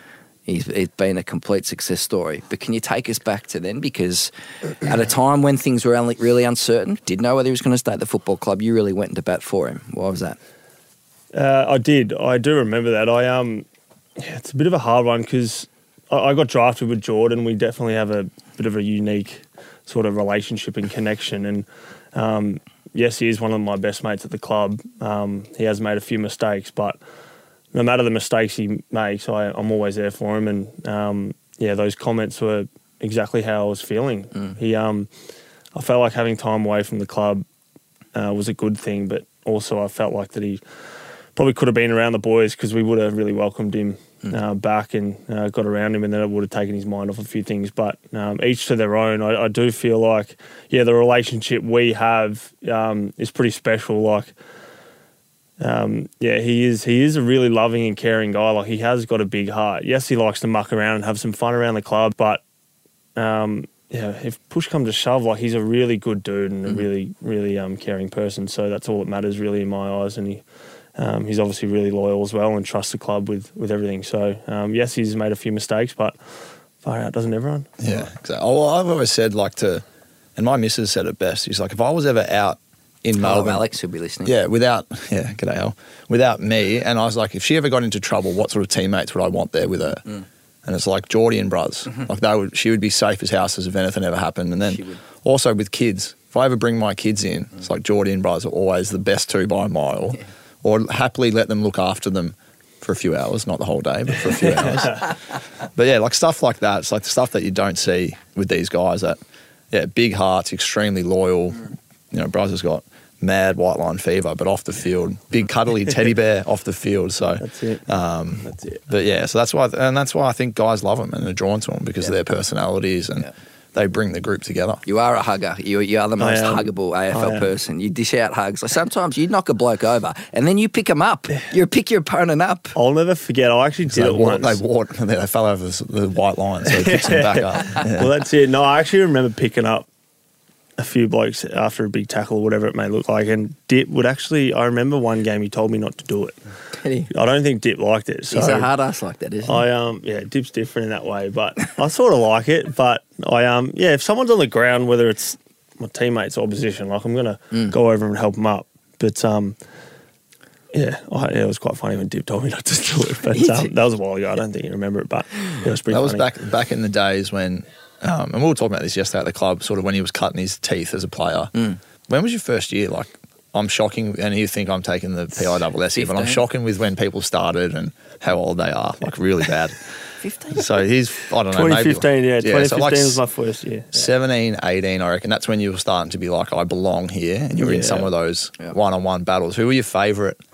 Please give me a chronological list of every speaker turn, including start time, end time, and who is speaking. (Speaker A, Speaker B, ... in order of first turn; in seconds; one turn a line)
Speaker A: 0.5-10.4
Speaker B: 11.3-13.7
Speaker B: 14.2-27.0
Speaker B: 27.7-35.1
Speaker B: 35.7-37.4
Speaker B: 38.1-40.6
Speaker B: 41.4-54.3
Speaker B: 55.6-62.4
Speaker B: 63.1-70.4
Speaker B: 71.0-76.2
Speaker B: 76.8-77.8
Speaker C: 77.8-79.8
Speaker C: 80.3-83.6
Speaker A: 83.2-84.3
Speaker C: 84.2-90.0
Speaker C: 90.6-109.2
Speaker A: 94.7-95.0
Speaker C: 109.7-124.8
Speaker B: 117.4-117.8
Speaker B: 118.4-118.8
Speaker A: 124.8-132.8
Speaker B: 126.2-127.5
Speaker B: 132.7-134.6
Speaker C: 133.9-138.1
Speaker B: 136.7-139.9
Speaker B: 140.8-146.3
Speaker A: 146.8-147.1
Speaker B: 147.1-148.7
Speaker A: 148.3-149.6
Speaker B: 149.5-159.6
Speaker B: 160.7-166.3
Speaker A: 163.3-163.7
Speaker C: 165.9-171.5
Speaker C: 172.1-179.8
Speaker A: 175.9-176.4
Speaker A: 180.2-180.7
Speaker C: 180.5-183.2
Speaker B: 181.5-184.1
Speaker C: 183.9-190.4
Speaker B: 187.6-188.1